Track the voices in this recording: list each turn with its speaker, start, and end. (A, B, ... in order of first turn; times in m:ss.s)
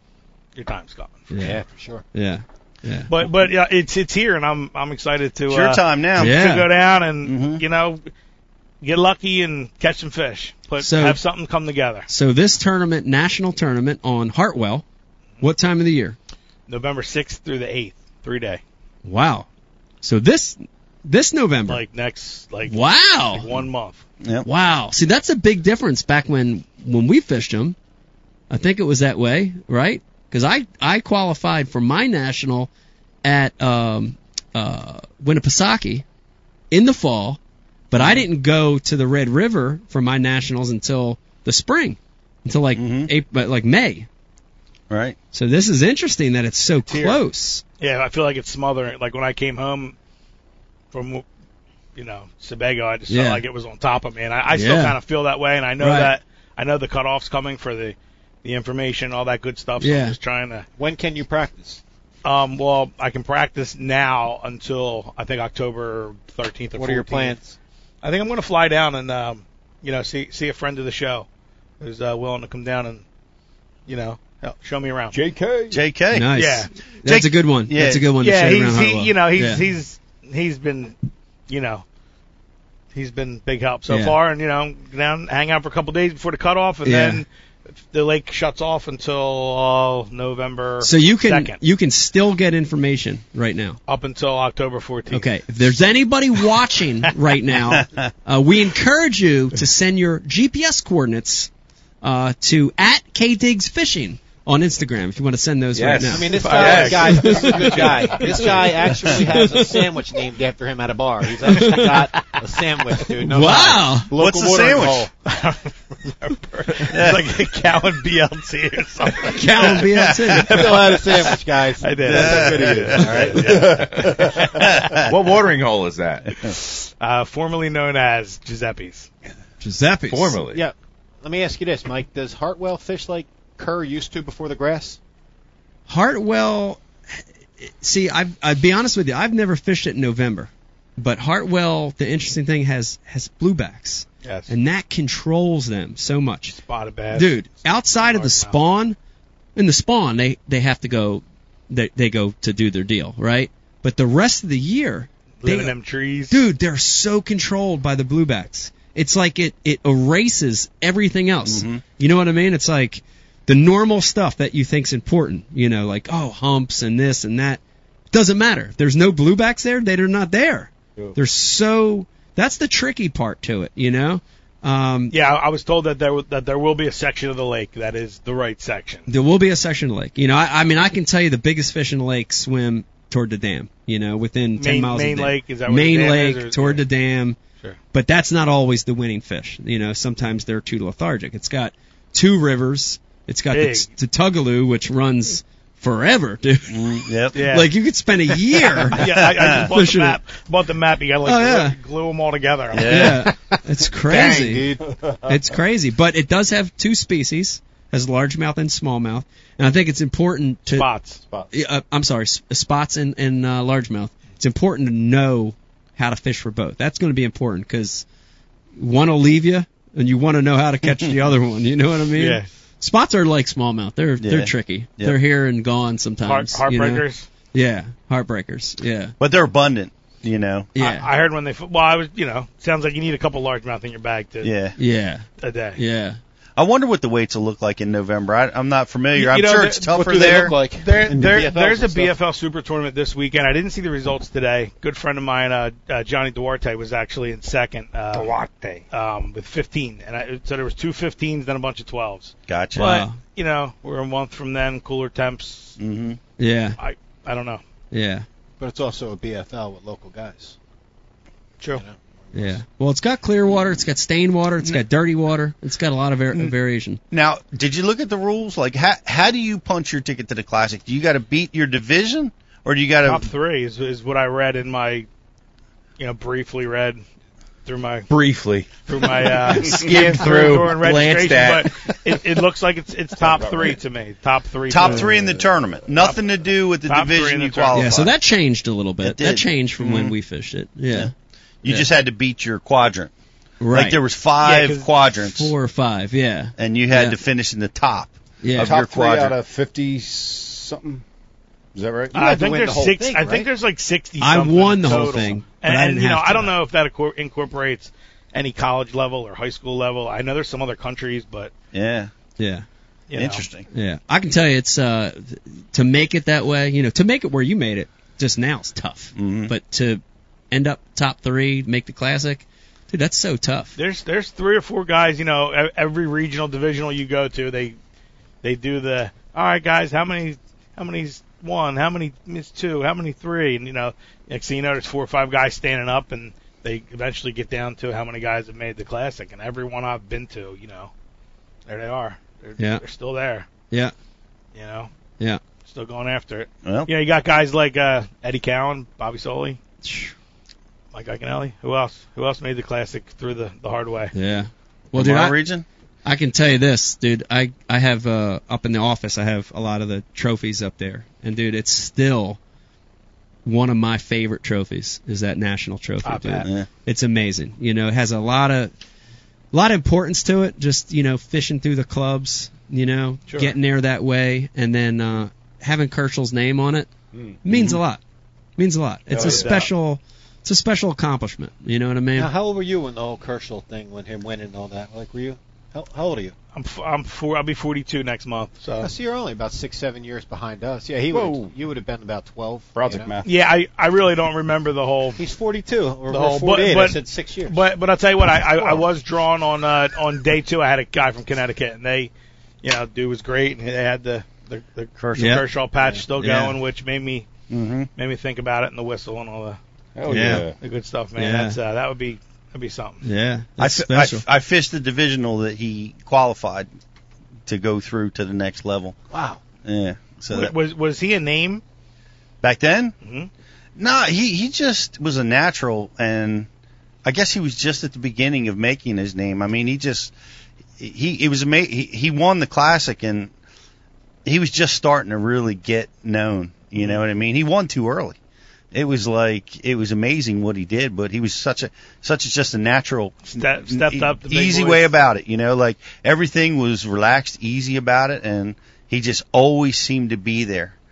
0:00.6-0:01.4 A
0:01.3-0:01.6 B
0:01.4-0:02.0 C
0:02.1-0:03.1 B
0:03.1-0:08.0 A
0:05.5-0:06.4 D
0:06.2-0:06.7 B
0:07.2-0:07.6 D
0:08.8-0:12.1 A
0:10.8-0:11.2 B
0:12.1-0:14.8 B
0:15.4-0:16.2 B
0:16.7-0:18.6 A
0:19.0-0:19.5 B
0:20.0-0:21.8 B
0:21.7-0:24.0 A
0:22.7-0:23.5 B
0:24.2-0:24.5 D
0:24.4-0:27.8 B
0:28.5-0:32.7 B
0:33.2-0:36.0 B
0:36.7-0:37.4 B
0:37.9-0:44.1 B
0:38.0-0:38.2 D
0:42.8-0:43.1 D
0:44.9-0:45.2 D
0:45.3-0:47.6 B
0:47.8-0:50.0 A
0:50.9-0:51.2 A
0:52.0-1:00.7 A
0:53.1-0:53.4 B
0:54.5-0:55.0 B
0:55.8-0:56.1 B
0:59.8-1:00.2 B
1:00.8-1:01.8 C
1:02.2-1:07.4 A
1:06.8-1:07.6 C
1:08.0-1:11.3 A
1:11.8-1:13.0 A
1:13.9-1:15.2 A
1:15.1-1:15.8 E
1:15.7-1:16.3 D
1:16.1-1:19.6 B
1:16.3-1:16.7 A
1:17.0-1:18.1 D
1:18.2-1:21.0 A
1:21.5-1:21.8 A
1:22.9-1:27.3 A
1:23.9-1:24.2 B
1:26.8-1:27.2 B
1:27.9-1:31.6 A
1:30.8-1:33.8 B
1:33.9-1:35.3 A
1:35.1-1:41.5 B
1:42.0-1:46.4 B
1:45.8-1:48.7 F
1:46.1-1:55.1 C
1:46.4-1:48.3 A
1:47.2-1:47.5 B
1:51.5-1:51.9 B
1:51.6-1:52.3 A
1:53.2-1:54.1 B
1:54.2-1:55.1 D
1:55.2-2:05.0 A
1:56.9-1:57.2 D
1:59.2-2:00.6 B
1:59.9-2:00.3 D
2:00.5-2:04.0 C
2:02.1-2:03.1 D
2:03.4-2:03.8 E
2:04.6-2:05.1 D
2:05.0-2:06.4 F
2:06.4-2:09.1 A
2:09.6-2:10.4 B
2:10.1-2:10.6 F
2:10.5-2:15.0 C
2:15.9-2:16.8 B
2:17.6-2:26.6 B
2:24.2-2:24.5 A
2:26.5-2:28.6 A
2:27.1-2:29.0 B
2:29.6-2:35.8 B
2:35.4-2:36.4 A
2:36.3-2:47.6 B
2:41.5-2:41.8 D
2:48.1-2:55.2 B
2:55.1-2:59.1 A
2:59.1-3:07.4 B
3:04.6-3:06.8 A
3:07.9-3:20.2 B
3:13.5-3:13.9 A
3:16.7-3:17.4 D
3:17.3-3:17.7 A
3:18.5-3:23.2 A
3:19.0-3:19.7 D
3:21.2-3:21.8 B
3:22.7-3:23.2 D
3:22.9-3:30.9 B
3:24.0-3:24.8 C
3:25.1-3:25.4 E
3:30.7-3:31.2 A
3:31.5-3:38.0 B
3:38.8-3:49.1 B
3:42.2-3:42.5 A
3:44.2-3:45.2 D
3:46.2-3:47.3 A
3:49.2-3:50.7 D
3:50.8-3:51.1 B
3:50.8-3:54.5 A
3:54.4-3:54.8 D
3:54.8-3:55.2 B
3:55.4-3:55.8 A
3:55.8-3:56.2 B
3:56.6-4:00.6 D
3:59.2-4:15.8 A
3:59.9-4:02.2 C
4:12.5-4:13.0 D
4:12.8-4:13.2 B
4:15.8-4:16.2 D
4:16.4-4:16.8 B
4:16.8-4:17.6 A
4:17.9-4:18.3 B
4:18.6-4:20.6 C
4:21.7-4:22.6 C
4:22.3-4:27.0 B
4:27.1-4:33.3 D
4:33.0-4:35.1 A
4:36.0-4:37.0 A
4:37.6-4:38.1 A
4:38.1-4:42.0 F
4:38.9-4:45.2 A
4:43.2-4:43.8 E
4:44.7-4:48.1 D
4:44.9-4:45.5 E
4:46.8-4:47.9 A
4:47.7-4:51.1 B
4:49.0-4:50.1 D
4:51.6-4:53.1 D
4:53.6-4:54.0 B
4:53.7-4:55.5 D
4:54.4-4:54.9 A
4:55.2-4:57.2 B
4:56.6-4:59.4 D
4:58.4-4:58.7 B
4:58.6-5:01.0 E
5:01.8-5:02.2 E
5:02.1-5:03.5 C
5:02.1-5:11.5 A
5:04.2-5:06.5 B
5:11.7-5:12.1 D
5:12.4-5:12.6 B
5:13.1-5:13.5 A
5:13.1-5:13.7 D
5:13.7-5:23.8 B
5:19.2-5:19.5 D
5:23.8-5:27.8 A
5:28.4-5:40.9 A
5:41.7-5:43.5 A
5:42.6-5:42.8 B
5:44.6-5:44.9 A
5:45.6-5:49.6 A
5:46.6-5:46.9 D
5:49.8-5:50.2 B
5:50.9-5:54.1 A
5:54.1-5:55.4 B
5:54.9-5:55.6 D
5:56.0-6:02.4 B
6:03.4-6:08.7 B
6:06.0-6:06.5 A
6:09.5-6:16.9 B
6:13.3-6:13.5 A
6:17.1-6:17.4 E
6:17.4-6:18.0 B
6:17.5-6:17.8 D
6:18.6-6:22.3 B
6:19.1-6:19.6 E
6:19.1-6:19.7 A
6:22.2-6:26.3 C
6:26.5-6:28.9 A
6:28.8-6:33.2 C
6:31.1-6:31.5 E
6:32.7-6:33.3 E
6:33.2-6:35.2 A
6:35.2-6:37.6 C
6:36.1-6:42.1 A
6:38.5-6:38.8 C
6:42.6-6:47.3 A
6:45.0-6:45.4 D
6:45.2-6:45.4 B
6:46.2-6:46.6 B
6:47.5-6:47.9 D
6:48.0-6:49.6 A
6:50.0-6:50.6 E
6:50.1-6:50.4 B
6:50.3-6:53.0 A
6:51.2-6:51.6 B
6:53.0-6:54.2 B
6:53.6-6:56.7 D
6:57.5-6:59.0 D
6:59.1-6:59.4 C
6:59.6-7:00.5 D
7:00.3-7:01.6 A
7:02.4-7:03.0 D
7:03.0-7:03.3 A
7:03.8-7:06.5 D
7:07.0-7:10.1 D
7:10.8-7:13.3 D
7:14.2-7:18.2 D
7:18.7-7:30.7 D
7:23.3-7:24.9 A